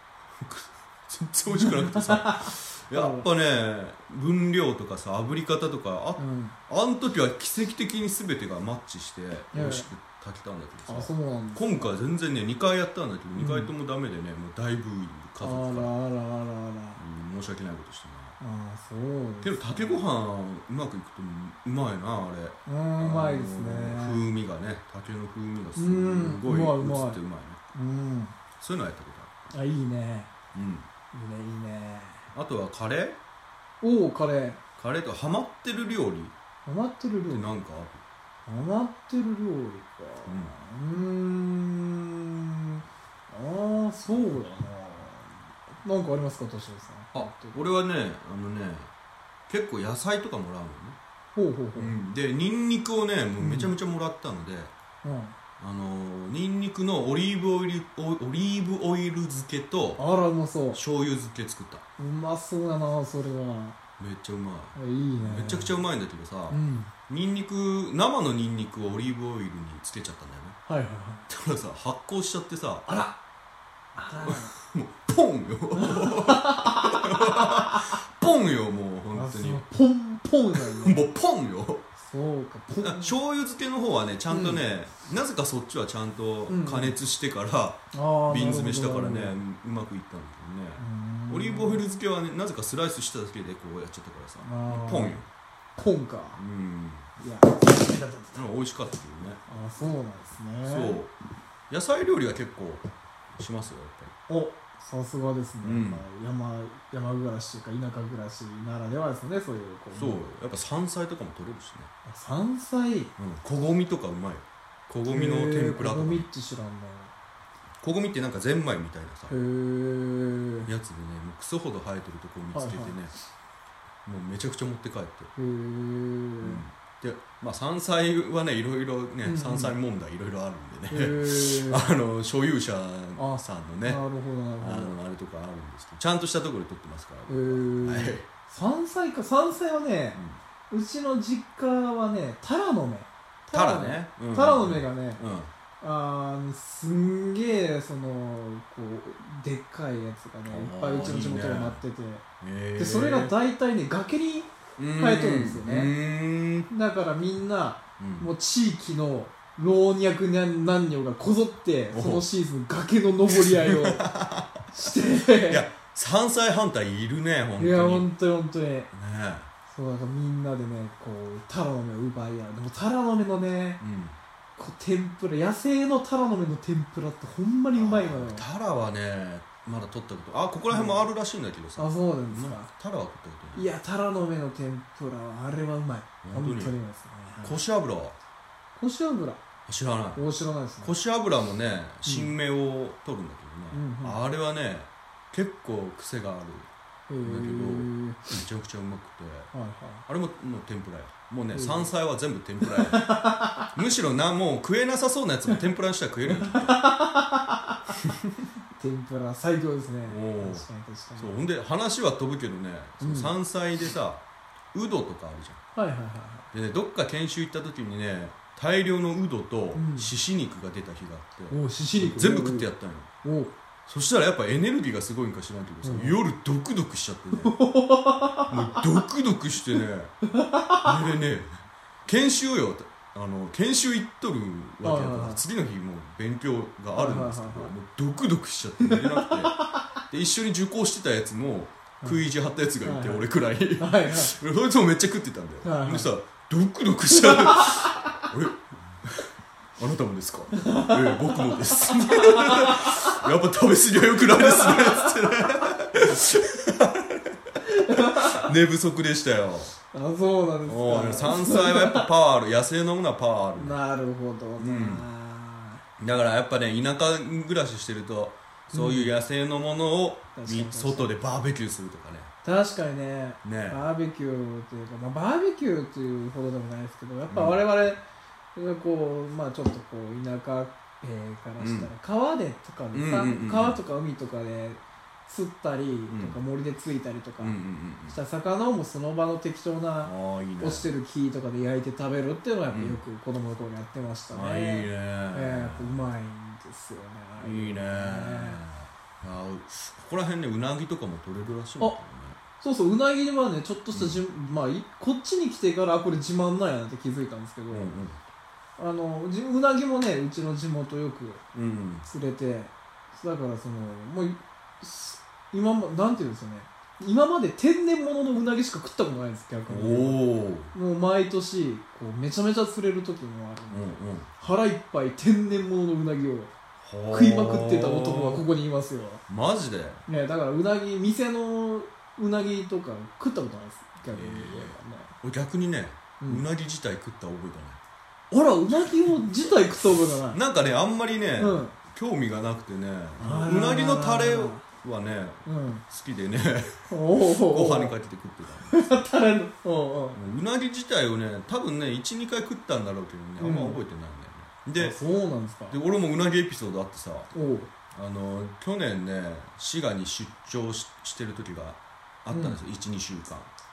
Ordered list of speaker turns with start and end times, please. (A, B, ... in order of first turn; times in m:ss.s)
0:00.3-0:15.9 A
0:01.5-0:03.2 B
0:06.2-0:06.5 B
0:09.5-0:09.9 B
0:10.9-0:11.9 B
0:13.4-0:13.7 B
0:15.4-0:17.0 B
0:17.0-0:18.4 A
0:18.4-0:20.0 B
0:19.4-0:27.6 A
0:22.6-0:24.3 B
0:25.8-0:27.2 B
0:27.7-0:28.4 B
0:28.6-0:29.3 A
0:29.5-0:30.3 B
0:30.5-0:30.9 A
0:31.1-0:32.3 B
0:32.3-0:33.2 A
0:33.8-0:34.6 B
0:34.8-0:36.3 A
0:36.6-0:37.5 B
0:37.3-0:38.0 A
0:38.4-0:47.6 B
0:40.2-0:40.5 A
0:47.1-0:48.9 A
0:49.5-0:51.0 A
0:51.3-0:52.0 B
0:51.8-0:54.7 A
0:53.4-0:53.7 B
0:55.0-0:55.4 B
0:55.6-1:00.0 A
1:00.0-1:00.8 B
1:00.7-1:01.8 A
1:02.0-1:03.8 B
1:04.0-1:10.6 A
1:04.8-1:05.8 B
1:06.5-1:06.9 B
1:10.7-1:11.3 B
1:11.3-1:12.9 A
1:12.8-1:13.2 B
1:14.0-1:14.5 B
1:14.1-1:19.6 A
1:15.7-1:18.0 B
1:19.1-1:21.1 B
1:20.5-1:21.9 A
1:22.0-1:23.2 B
1:22.8-1:35.2 A
1:24.3-1:24.6 B
1:26.5-1:26.9 B
1:27.9-1:29.4 B
1:30.8-1:31.8 B
1:34.4-1:35.2 B
1:35.8-1:36.4 B
1:36.4-1:37.1 A
1:37.2-1:38.4 B
1:38.3-1:39.4 A
1:39.5-1:41.0 B
1:40.6-1:41.1 A
1:41.7-1:44.1 A
1:44.3-1:50.2 B
1:45.6-1:46.0 A
1:49.9-1:51.9 A
1:52.0-1:53.1 B
1:53.2-1:56.3 A
1:55.1-1:57.1 B
1:57.8-1:59.4 A
1:59.3-2:00.7 B
2:00.6-2:03.1 A
2:02.5-2:03.0 B
2:04.0-2:05.3 A
2:05.4-2:06.6 B
2:06.4-2:14.0 A
2:09.2-2:09.8 B
2:10.9-2:11.9 B
2:13.2-2:15.0 B
2:14.6-2:18.2 A
2:17.3-2:25.2 B
2:20.1-2:20.4 A
2:23.5-2:25.5 A
2:25.8-2:32.2 B
2:30.5-2:31.8 A
2:32.4-2:33.3 A
2:32.8-2:35.9 B
2:34.8-2:36.7 A
2:36.7-2:44.0 B
2:38.0-2:38.3 A
2:41.9-2:42.2 A
2:43.3-2:44.6 A
2:44.7-2:45.6 B
2:45.5-2:48.1 A
2:47.6-2:48.9 B
2:48.9-2:49.5 A
2:49.7-2:53.8 B
2:53.8-2:54.2 A
2:54.6-2:58.4 B
2:57.7-3:03.7 A
3:00.7-3:01.0 B
3:01.8-3:02.7 B
3:03.5-3:07.6 B
3:06.2-3:06.7 A
3:07.4-3:08.2 A
3:08.8-3:09.4 B
3:09.7-3:10.2 A
3:10.1-3:10.9 B
3:10.8-3:16.7 A
3:12.0-3:12.3 B
3:13.7-3:14.2 B
3:17.1-3:18.3 B
3:17.2-3:19.5 A
3:19.5-3:20.0 B
3:20.1-3:23.1 A
3:21.5-3:21.9 B
3:22.6-3:23.7 B
3:23.7-3:26.8 A
3:26.3-3:28.0 B
3:28.0-3:28.3 A
3:28.8-3:31.4 B
3:30.1-3:30.6 A
3:31.2-3:34.2 A
3:33.0-3:33.3 B
3:34.7-3:35.6 A
3:35.7-3:36.5 B
3:36.5-3:43.1 A
3:39.7-3:40.1 B
3:41.5-3:42.7 B
3:43.2-3:43.5 B
3:43.8-3:47.5 A
3:45.8-3:46.2 B
3:47.4-3:48.9 B
3:48.5-3:50.2 A
3:50.3-3:50.9 B
3:50.8-3:59.6 A
3:54.8-3:55.4 B
3:56.9-3:57.7 B
3:58.8-3:59.9 B
4:00.1-4:19.7 A
4:02.0-4:02.2 B
4:02.8-4:04.3 B
4:05.6-4:06.1 B
4:07.1-4:08.2 B
4:10.6-4:13.2 B
4:14.2-4:15.1 B
4:17.6-4:18.5 B
4:19.9-4:22.1 B
4:20.6-4:23.8 A
4:23.6-4:25.8 B
4:24.6-4:25.0 A
4:26.0-4:32.3 A
4:28.7-4:29.1 B
4:30.3-4:31.1 B
4:32.4-4:38.0 B
4:33.4-4:33.8 A
4:37.3-4:37.6 A
4:38.5-4:58.6 B
4:41.6-4:41.9 A
4:42.9-4:43.8 A
4:46.1-4:46.4 A
4:47.4-4:48.2 A
4:50.0-4:50.9 A
4:52.7-4:53.0 A
4:54.3-4:56.0 A
4:57.4-5:02.4 A
5:02.6-5:07.9 B
5:03.9-5:04.2 A
5:07.7-5:08.2 A
5:08.8-5:11.4 B
5:11.5-5:12.0 A
5:12.0-5:26.5 B
5:19.7-5:20.7 A
5:23.7-5:24.3 A
5:26.8-5:28.4 A
5:27.1-5:29.2 B
5:29.3-5:30.0 A
5:30.1-5:35.1 B
5:34.1-5:37.8 A
5:36.2-5:36.4 B
5:38.3-5:40.4 B
5:40.3-5:48.9 A
5:41.4-5:41.7 B
5:43.2-5:44.6 B
5:45.4-5:45.8 B
5:46.9-5:47.9 B
5:48.7-5:50.2 B
5:50.1-5:55.0 A
5:53.4-5:53.8 B
5:54.8-5:55.8 B
5:55.7-5:57.3 A
5:57.3-5:57.7 B
5:57.9-6:03.5 A
6:02.3-6:02.6 B